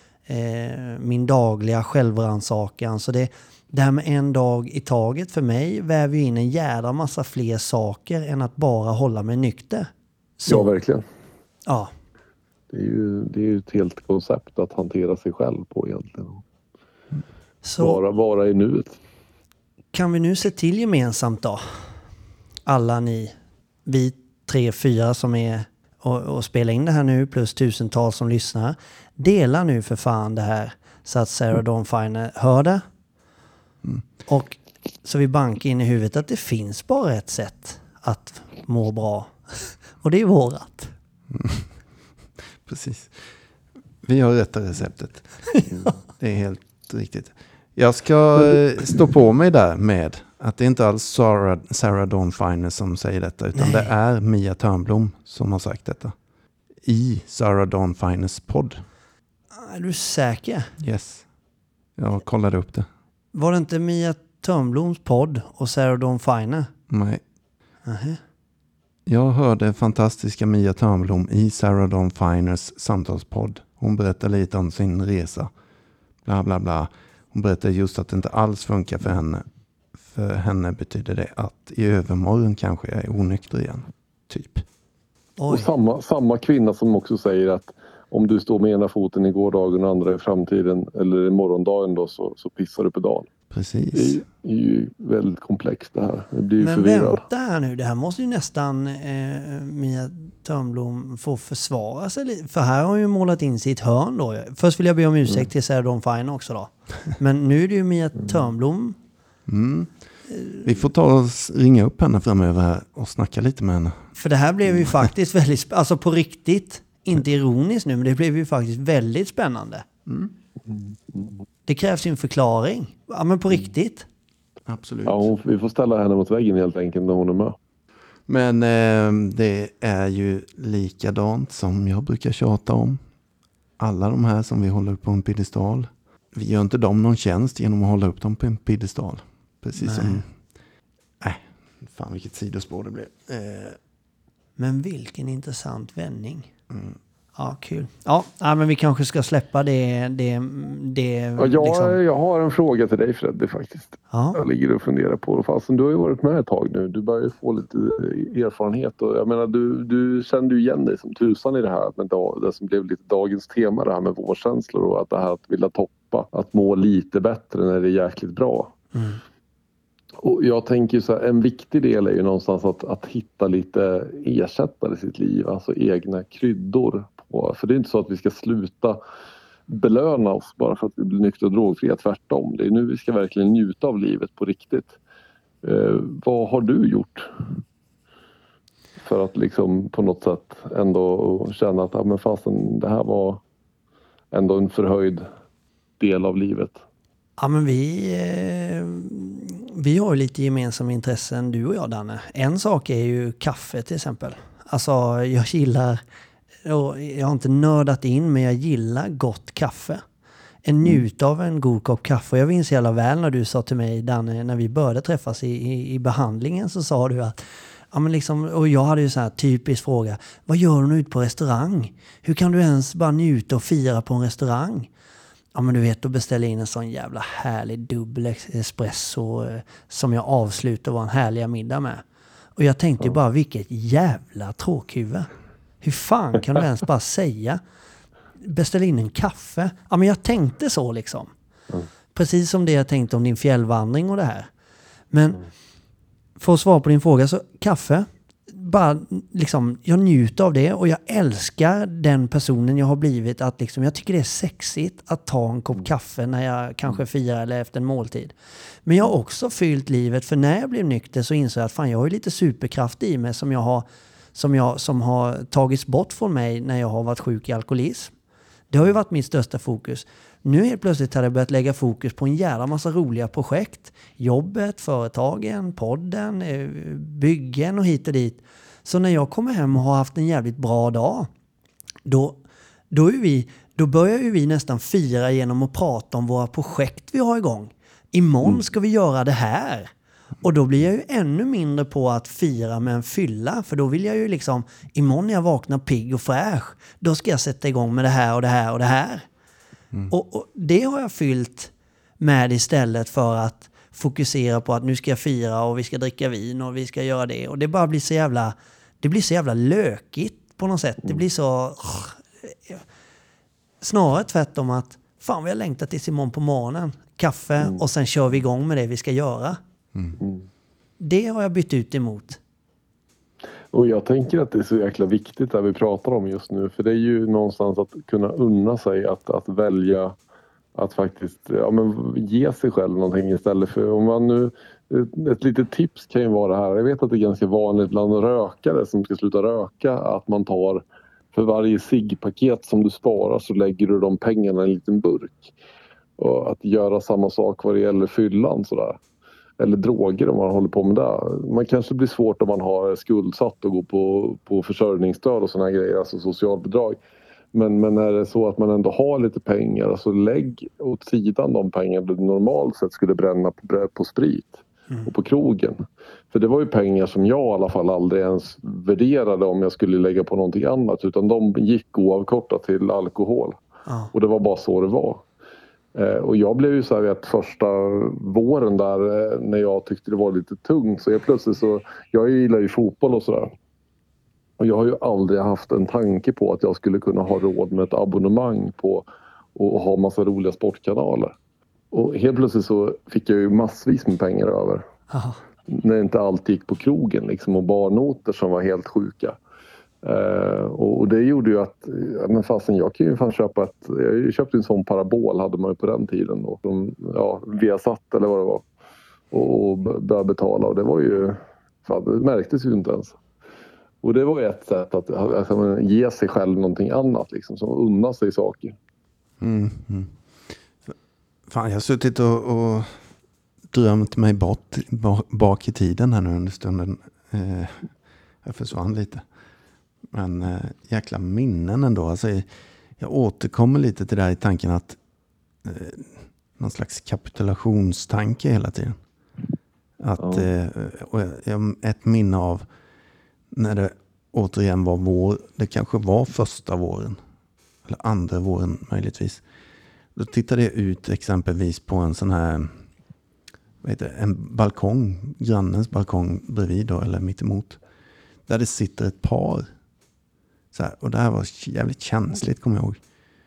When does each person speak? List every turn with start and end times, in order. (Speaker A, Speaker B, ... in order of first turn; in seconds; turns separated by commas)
Speaker A: 0.3-10.7, Speaker B: 10.5-11.0, Speaker A: 11.7-11.9, Speaker B: 12.7-16.4, Speaker A: 17.6-18.0, Speaker B: 17.8-19.0, Speaker A: 19.9-21.8, Speaker A: 22.6-23.3, Speaker A: 23.9-32.8, Speaker A: 34.3-40.9, Speaker C: 41.3-41.7, Speaker C: 42.6-43.3, Speaker C: 44.0-45.4, Speaker C: 46.1-56.1, Speaker A: 53.5-53.9, Speaker C: 56.8-58.8, Speaker A: 59.5-60.7, Speaker C: 60.8-61.2, Speaker C: 62.0-62.9, Speaker A: 63.3-66.7, Speaker C: 66.9-67.2, Speaker A: 67.8-68.2, Speaker C: 69.0-75.5, Speaker C: 76.2-79.4, Speaker C: 80.0-84.7, Speaker A: 85.4-85.7, Speaker B: 85.5-93.3, Speaker C: 93.5-94.2, Speaker B: 93.9-97.2, Speaker A: 96.6-109.0, Speaker C: 109.5-109.9, Speaker C: 110.6-114.1, Speaker A: 114.2-119.8, Speaker C: 114.7-115.0, Speaker C: 120.1-120.3, Speaker B: 120.7-121.4, Speaker A: 121.7-124.1, Speaker C: 124.7-125.3, Speaker B: 125.0-127.5, Speaker C: 128.3-133.0, Speaker C: 133.8-140.2, Speaker A: 139.8-140.2, Speaker C: 141.2-143.8, Speaker A: 144.6-146.5, Speaker C: 146.7-147.0, Speaker A: 147.3-152.0, Speaker B: 151.4-168.7, Speaker A: 154.1-154.4, Speaker A: 168.9-169.2, Speaker B: 170.2-179.0, Speaker B: 179.7-185.0, Speaker B: 185.6-187.3, Speaker B: 189.0-193.4, Speaker B: 194.3-195.2, Speaker B: 196.0-196.8, Speaker A: 197.4-206.0, Speaker A: 206.6-210.0, Speaker A: 210.6-217.4, Speaker A: 217.9-224.9, Speaker A: 225.5-232.0, Speaker A: 232.6-235.3, Speaker A: 235.8-237.6, Speaker A: 238.4-241.3, Speaker A: 242.1-244.5, Speaker A: 245.1-245.4, Speaker A: 246.4-258.3, Speaker A: 258.8-268.1, Speaker A: 268.7-281.3, Speaker A: 282.1-282.4, Speaker A: 282.9-289.9, Speaker A: 290.4-299.3, Speaker A: 300.1-312.8, Speaker A: 313.8-319.6, Speaker B: 320.2-320.5, Speaker A: 321.0-322.4, Speaker B: 323.7-330.1, Speaker B: 330.8-345.5, Speaker B: 346.2-349.0, Speaker B: 349.6-357.0, Speaker B: 357.5-373.6, Speaker A: 373.9-374.1, Speaker B: 374.1-375.2, Speaker B: 375.9-383.5, Speaker B: 384.6-391.3, Speaker B: 391.9-394.8, Speaker A: 395.1-395.4, Speaker B: 395.7-399.4, Speaker B: 400.0-408.6, Speaker B: 409.3-413.2, Speaker B: 414.0-418.8, Speaker C: 419.4-420.1, Speaker C: 421.5-422.9, Speaker C: 423.7-427.9, Speaker C: 428.4-429.2, Speaker C: 430.1-432.5, Speaker C: 433.0-435.0, Speaker C: 435.6-439.0, Speaker C: 440.0-442.6, Speaker B: 440.2-440.5, Speaker C: 443.5-447.2, Speaker C: 447.9-449.4, Speaker C: 450.1-452.8, Speaker C: 453.8-457.8, Speaker C: 458.5-459.7, Speaker C: 460.7-463.0